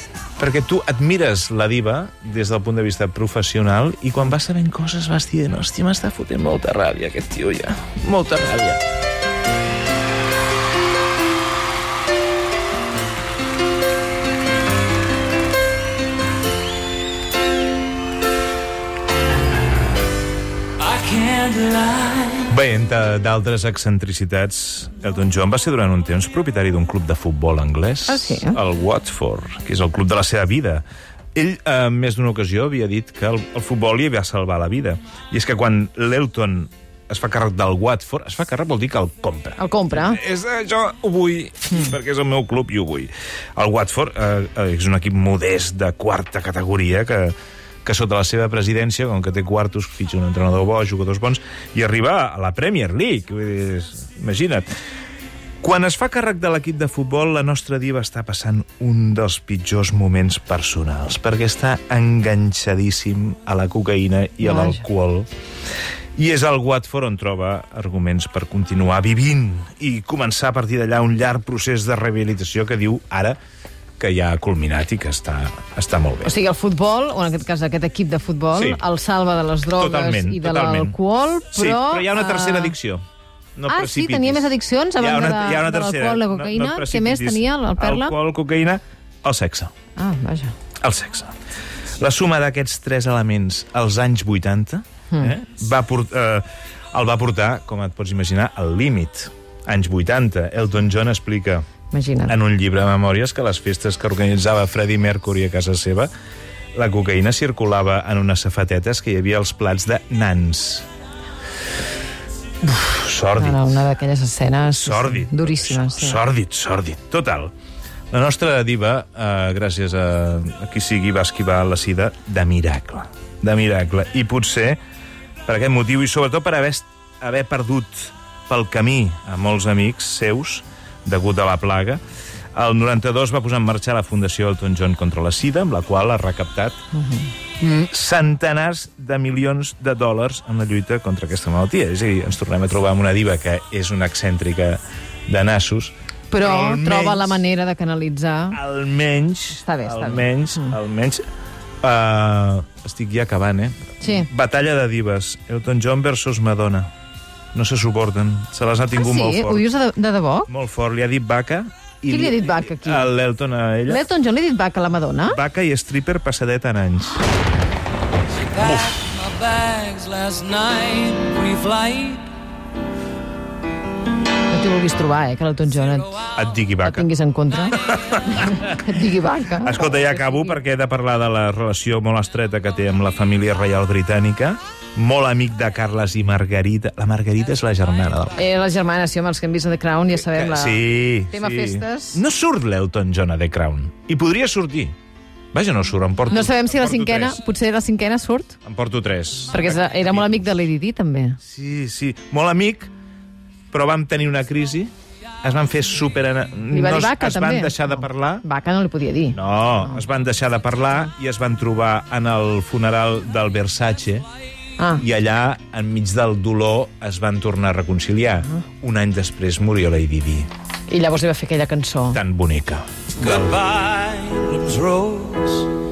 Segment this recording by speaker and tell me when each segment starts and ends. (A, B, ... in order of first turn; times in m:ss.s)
0:00.4-0:08.8 A
0:20.8-0:22.5 B
0:22.5-0:30.8 A
0:28.1-0:28.6 C
0:31.3-0:54.7 A
0:39.6-0:40.2 C
0:55.6-1:05.3 A
1:04.4-1:04.8 C
1:06.2-1:13.4 A
1:14.0-1:16.3 A
1:16.2-1:22.7 C
1:18.5-1:18.8 A
1:19.7-1:21.0 A
1:21.5-1:23.0 A
1:23.6-1:29.7 A
1:23.7-1:28.1 C
1:30.0-1:30.5 C
1:30.8-1:31.3 A
1:32.0-1:41.6 A
1:41.9-1:42.3 C
1:42.3-1:46.1 A
1:46.8-1:50.8 A
1:52.6-1:53.8 A
1:53.4-1:56.2 C
1:54.7-1:57.5 A
1:58.1-2:04.8 A
2:05.4-2:12.0 A
2:12.5-2:16.8 A
2:16.9-2:17.3 C
2:17.6-2:27.4 A
2:26.3-2:28.6 C
2:28.5-2:31.2 A
2:29.5-2:30.7 C
2:31.8-2:36.9 A
2:34.0-2:34.3 C
2:37.5-2:39.7 A
2:39.0-2:40.5 C
2:40.5-2:44.0 A
2:42.1-2:43.1 C
2:43.9-2:45.4 C
2:45.2-2:47.2 A
2:48.4-2:52.3 B
2:54.5-2:56.3 C
2:56.3-2:57.0 A
2:56.8-3:00.6 C
2:57.8-2:58.7 A
2:59.6-3:08.4 A
3:08.4-3:12.2 C
3:10.2-3:14.9 A
3:15.5-3:17.4 A
3:16.3-3:18.6 C
3:18.6-3:20.5 A
3:19.5-3:21.4 C
3:21.4-3:22.9 A
3:23.7-3:24.9 A
3:25.4-3:28.4 A
3:26.7-3:30.0 C
3:29.3-3:34.2 A
3:34.8-3:35.0 C
3:35.0-3:40.5 A
3:40.9-3:42.2 C
3:42.1-3:43.6 A
3:43.2-3:45.8 B